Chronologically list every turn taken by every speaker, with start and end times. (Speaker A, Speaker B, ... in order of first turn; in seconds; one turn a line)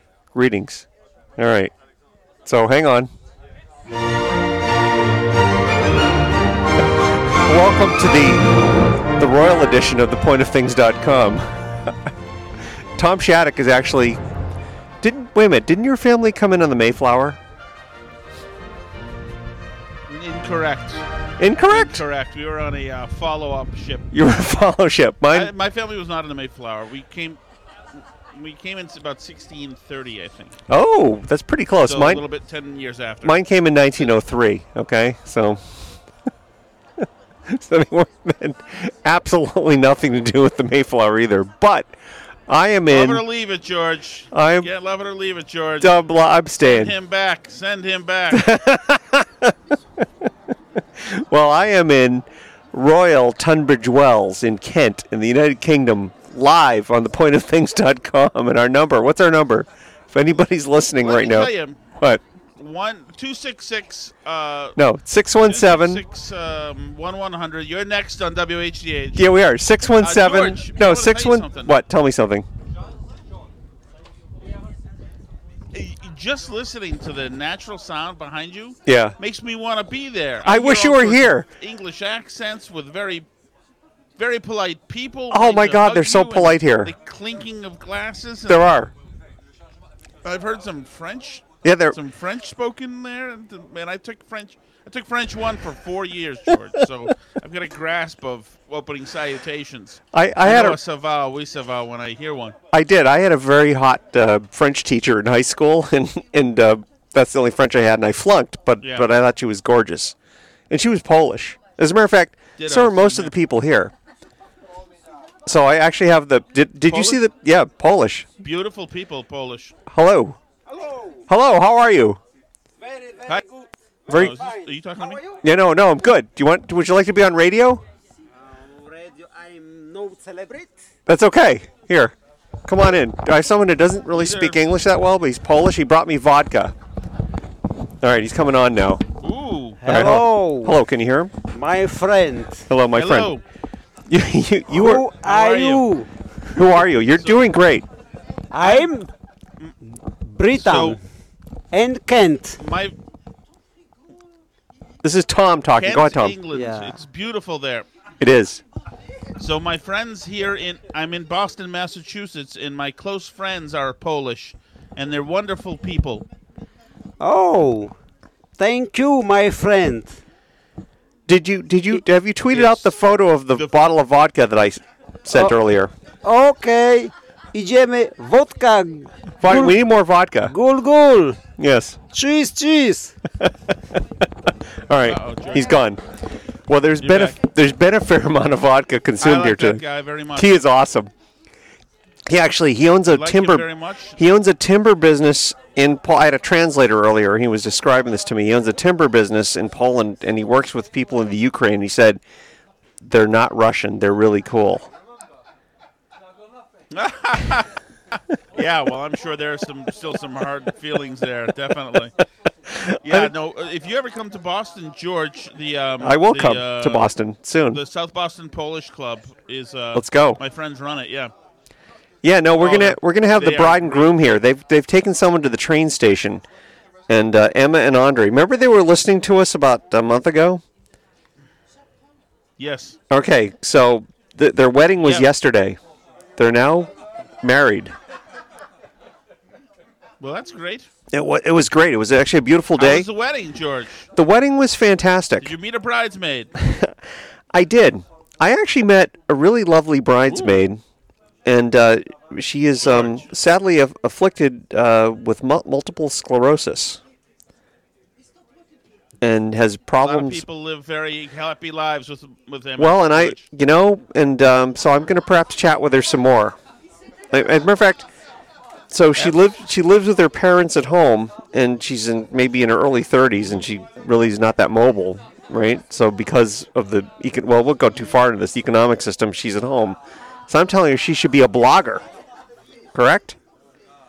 Speaker A: 0.3-0.9
Speaker A: 1.4-1.7
Speaker A: 2.5-3.1
Speaker A: 7.4-8.5
Speaker A: 9.2-11.9
Speaker A: 13.0-14.2
Speaker A: 15.0-17.4
Speaker B: 20.1-21.1
Speaker A: 21.4-22.0
Speaker B: 21.7-24.1
Speaker A: 24.1-25.5
Speaker B: 25.3-27.4
Speaker B: 28.3-30.6
Speaker A: 30.7-32.2
Speaker B: 31.9-33.4
Speaker A: 33.2-35.6
Speaker A: 37.5-41.9
Speaker A: 42.5-43.2
Speaker B: 42.9-46.0
Speaker A: 44.3-44.7
Speaker A: 45.8-46.9
Speaker B: 46.6-48.5
Speaker A: 48.3-49.5
Speaker A: 51.0-62.2
Speaker B: 61.0-61.8
Speaker B: 62.6-64.8
Speaker A: 64.8-66.0
Speaker B: 65.5-69.3
Speaker A: 69.2-72.5
Speaker B: 70.0-71.8
Speaker B: 75.7-83.3
Speaker A: 78.9-79.2
Speaker A: 80.5-81.5
Speaker B: 84.2-88.8
Speaker A: 85.3-86.9
Speaker A: 88.5-88.9
Speaker B: 90.2-102.6
Speaker A: 91.6-92.0
Speaker A: 100.1-100.8
Speaker A: 102.7-110.2
Speaker B: 108.8-109.1
Speaker A: 110.7-113.9
Speaker B: 112.6-113.3
Speaker A: 115.5-118.3
Speaker B: 116.9-117.2
Speaker B: 118.4-119.7
Speaker A: 119.9-120.4
Speaker C: 120.7-121.2
Speaker A: 121.3-122.2
Speaker C: 122.8-125.4
Speaker B: 124.1-125.2
Speaker A: 125.4-127.8
Speaker C: 128.3-130.7
Speaker A: 131.1-132.1
Speaker A: 132.7-136.7
Speaker B: 134.1-134.7
Speaker A: 138.0-139.0
Speaker B: 139.2-139.8
Speaker C: 139.8-140.8
Speaker A: 139.9-141.3
Speaker C: 141.5-142.7
Speaker A: 142.7-143.3
Speaker B: 143.0-143.4
Speaker A: 144.1-145.1
Speaker C: 144.7-146.1
Speaker B: 145.2-145.9
Speaker A: 146.5-147.8
Speaker C: 148.5-149.1
Speaker B: 148.6-148.9
Speaker C: 150.3-151.0
Speaker B: 150.6-151.0
Speaker C: 151.7-152.6
Speaker B: 152.6-152.9
Speaker A: 155.0-156.4
Speaker B: 155.8-157.9
Speaker C: 156.5-157.0
Speaker A: 158.2-158.6
Speaker B: 159.4-166.2
Speaker C: 167.2-168.0
Speaker C: 168.6-170.2
Speaker A: 171.3-175.9
Speaker B: 172.5-173.0
Speaker C: 176.2-179.8
Speaker A: 179.4-180.5
Speaker C: 180.5-181.4
Speaker A: 181.6-182.0
Speaker C: 182.1-183.2
Speaker A: 184.9-186.0
Speaker B: 185.0-185.8
Speaker A: 186.7-189.8
Speaker B: 187.0-187.4
Speaker B: 189.2-190.6
Speaker A: 190.3-191.1
Speaker A: 192.3-193.7
Speaker B: 193.1-194.2
Speaker A: 194.2-202.2
Speaker A: 203.0-204.9
Speaker B: 206.9-207.8
Speaker B: 208.6-212.2
Speaker A: 212.7-213.3
Speaker B: 213.0-217.1
Speaker A: 216.0-217.8
Speaker B: 217.7-221.3
Speaker A: 219.9-220.4
Speaker A: 222.2-226.4
Speaker B: 222.6-224.3
Speaker A: 227.1-230.6
Speaker B: 232.6-233.0
Speaker A: 233.1-235.8
Speaker B: 235.0-235.3
Speaker A: 236.4-236.9
Speaker A: 237.4-237.9
Speaker B: 240.2-240.9
Speaker A: 241.1-243.1
Speaker B: 242.8-244.1
Speaker A: 244.2-245.5
Speaker B: 245.4-246.5
Speaker A: 246.6-246.9
Speaker A: 247.5-250.8
Speaker B: 250.3-250.6
Speaker A: 251.5-257.0
Speaker B: 252.8-253.3
Speaker A: 259.2-260.4
Speaker B: 260.0-263.4
Speaker A: 262.8-266.6
Speaker A: 267.3-268.1
Speaker A: 268.9-280.0
Speaker B: 269.2-269.5
Speaker A: 280.5-282.1
Speaker A: 282.9-283.4